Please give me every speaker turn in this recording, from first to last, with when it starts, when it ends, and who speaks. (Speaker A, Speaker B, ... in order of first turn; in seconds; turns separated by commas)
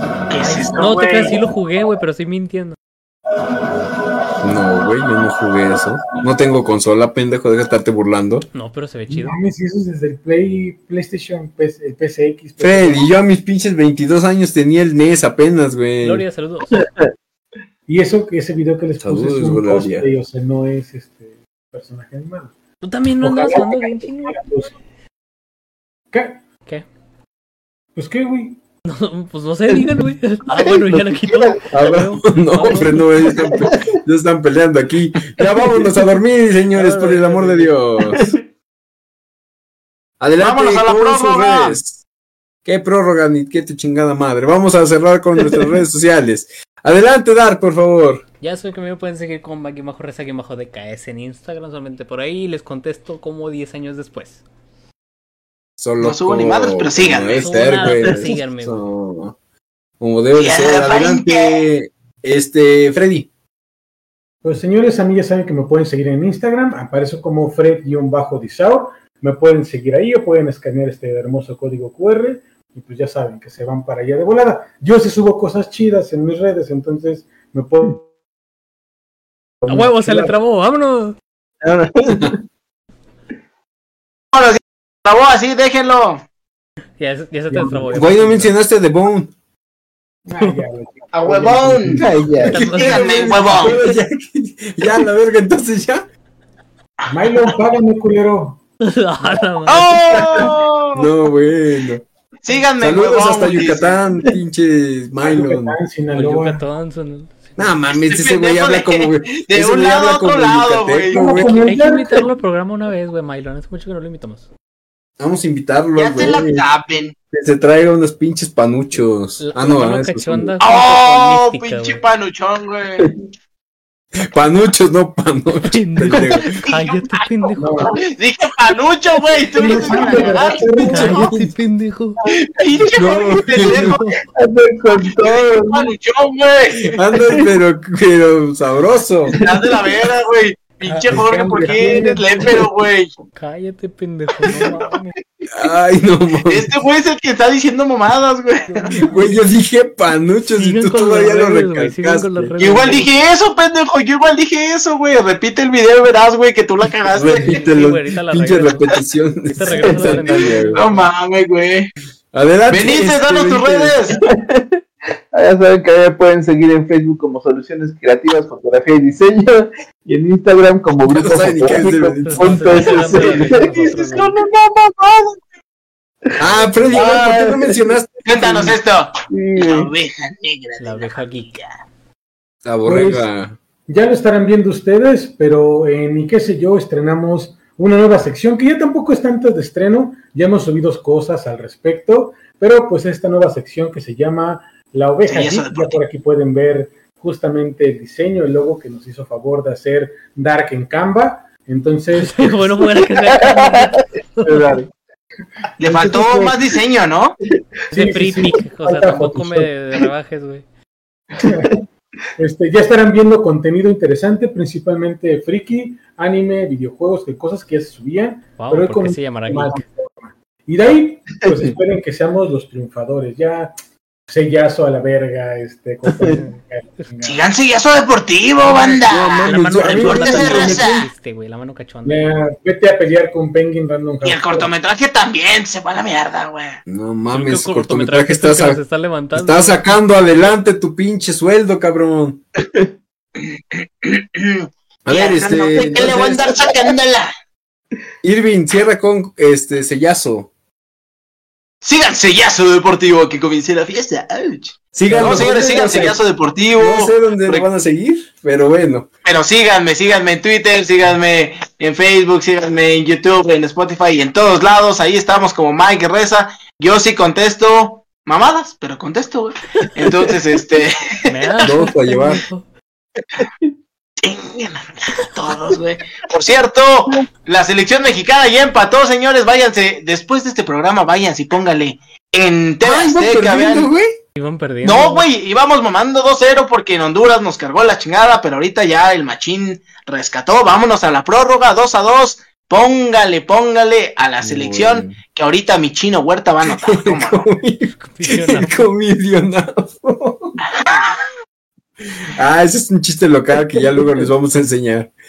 Speaker A: 0.3-1.4, Speaker B: 0.4-2.8, Speaker C: 4.4-8.5, Speaker B: 8.5-9.4, Speaker D: 9.1-13.1, Speaker C: 12.6-16.3, Speaker B: 16.0-16.9, Speaker D: 17.9-22.6, Speaker C: 19.0-20.1, Speaker B: 22.8-24.4, Speaker D: 23.2-24.7, Speaker D: 26.1-26.4, Speaker D: 27.9-28.6, Speaker B: 28.9-33.4, Speaker E: 30.9-31.5, Speaker C: 31.7-38.4, Speaker B: 36.7-37.8, Speaker C: 40.2-42.0, Speaker A: 40.4-41.8, Speaker C: 42.6-48.2, Speaker B: 48.4-54.4, Speaker C: 55.8-59.4, Speaker A: 56.0-57.6, Speaker B: 57.4-58.9, Speaker C: 60.0-63.3, Speaker A: 60.4-61.6, Speaker D: 64.4-78.1, Speaker D: 79.6-80.4, Speaker B: 79.7-81.2, Speaker E: 81.6-82.4, Speaker C: 82.1-82.3, Speaker A: 84.3-86.2, Speaker B: 87.0-88.6, Speaker C: 87.9-89.3, Speaker D: 90.3-92.2, Speaker A: 91.1-93.8, Speaker E: 92.0-92.7, Speaker B: 92.5-93.5, Speaker C: 92.6-96.0, Speaker A: 97.0-97.6, Speaker D: 97.1-98.6, Speaker B: 98.8-100.2, Speaker A: 99.7-101.1, Speaker C: 101.0-102.0, Speaker A: 102.4-104.0, Speaker C: 102.8-105.8, Speaker D: 105.2-106.6, Speaker B: 106.1-107.7, Speaker C: 107.6-111.6, Speaker A: 107.9-111.2, Speaker D: 111.1-112.2, Speaker B: 111.5-114.5, Speaker C: 115.2-116.7, Speaker A: 116.0-117.2, Speaker C: 117.3-120.5, Speaker B: 119.4-122.0, Speaker A: 120.6-123.1, Speaker C: 124.2-126.5, Speaker B: 125.6-127.9, Speaker A: 126.6-131.2, Speaker D: 127.6-128.0, Speaker D: 129.6-131.3, Speaker B: 130.9-132.2, Speaker C: 131.1-131.5, Speaker A: 132.6-134.0, Speaker C: 133.0-134.0, Speaker B: 133.6-134.2, Speaker E: 134.4-135.9, Speaker A: 135.1-137.0, Speaker C: 136.9-139.4, Speaker E: 139.3-139.7, Speaker A: 139.4-143.1, Speaker B: 140.9-142.5, Speaker D: 141.1-142.3, Speaker B: 143.3-145.2, Speaker C: 145.5-146.7, Speaker A: 146.5-148.9, Speaker B: 148.7-149.4, Speaker C: 149.0-152.6, Speaker B: 150.5-153.1, Speaker A: 152.6-157.6, Speaker C: 157.2-160.9, Speaker B: 157.3-158.9, Speaker B: 159.5-161.1, Speaker E: 159.7-160.3, Speaker A: 160.7-161.9, Speaker C: 162.3-164.0, Speaker A: 162.7-164.2, Speaker E: 164.3-164.8, Speaker E: 165.3-174.2, Speaker C: 171.1-173.5, Speaker B: 171.6-174.3, Speaker A: 173.6-175.3, Speaker C: 176.4-178.8, Speaker B: 176.5-177.1, Speaker E: 176.9-178.0, Speaker A: 177.2-177.4, Speaker A: 178.2-181.7, Speaker E: 179.3-179.9, Speaker B: 180.8-181.6, Speaker C: 182.7-183.6, Speaker D: 182.8-183.3, Speaker D: 183.9-202.6, Speaker A: 195.2-196.0, Speaker B: 202.1-204.8, Speaker E: 203.4-203.9, Speaker E: 204.4-204.9, Speaker A: 205.8-207.4, Speaker D: 205.8-206.6, Speaker B: 207.9-210.6, Speaker D: 207.9-209.8, Speaker D: 211.4-211.8, Speaker D: 212.4-223.8, Speaker B: 218.6-219.8, Speaker D: 224.3-227.4, Speaker A: 227.2-231.1, Speaker C: 228.6-231.1, Speaker B: 229.5-232.4, Speaker D: 232.1-234.7, Speaker A: 234.2-236.8, Speaker C: 236.9-238.8, Speaker B: 237.3-239.9, Speaker C: 239.3-242.4, Speaker A: 243.4-247.3, Speaker C: 245.1-246.5, Speaker C: 248.2-250.5, Speaker A: 251.8-257.7, Speaker C: 254.9-256.2, Speaker D: 255.1-255.4, Speaker C: 256.8-259.1, Speaker A: 259.2-271.4, Speaker B: 271.3-272.7, Speaker C: 271.6-272.4, Speaker A: 274.2-283.9, Speaker C: 282.8-284.2, Speaker B: 284.4-285.3, Speaker A: 284.8-297.5, Speaker C: 294.4-295.2, Speaker C: 296.7-300.6, Speaker B: 297.9-298.9, Speaker A: 300.7-301.2, Speaker C: 302.3-305.1